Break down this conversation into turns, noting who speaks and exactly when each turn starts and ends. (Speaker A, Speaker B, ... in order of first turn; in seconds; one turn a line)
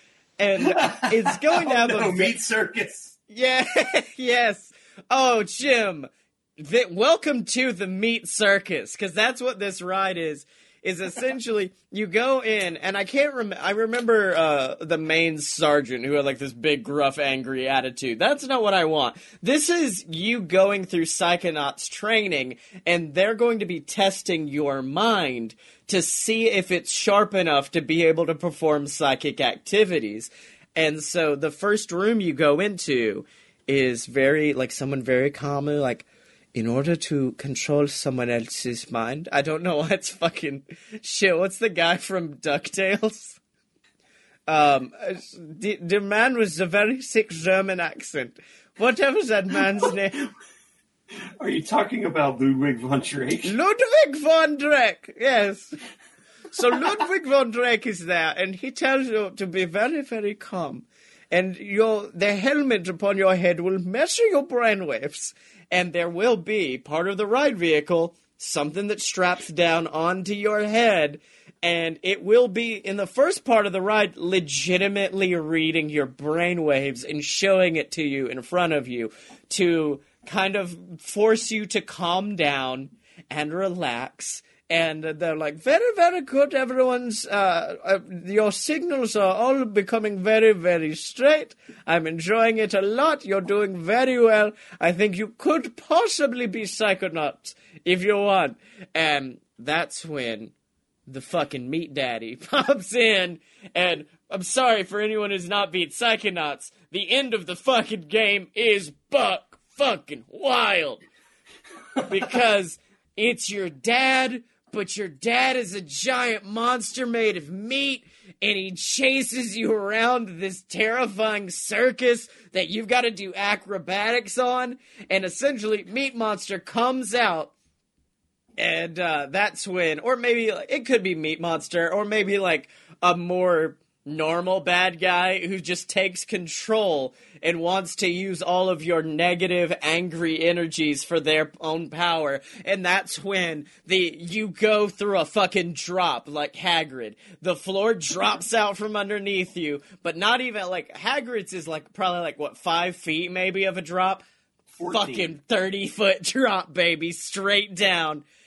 Speaker A: 0.4-2.4
Speaker B: 0.6-3.1
Speaker A: 3.3-43.4
Speaker A: 44.5-50.3
Speaker B: 51.4-53.5
Speaker A: 53.4-55.8
Speaker A: 56.5-100.5
Speaker A: 101.1-111.0
Speaker A: 112.0-127.5
Speaker A: 128.6-154.2
Speaker B: 154.8-155.4
Speaker A: 154.9-158.2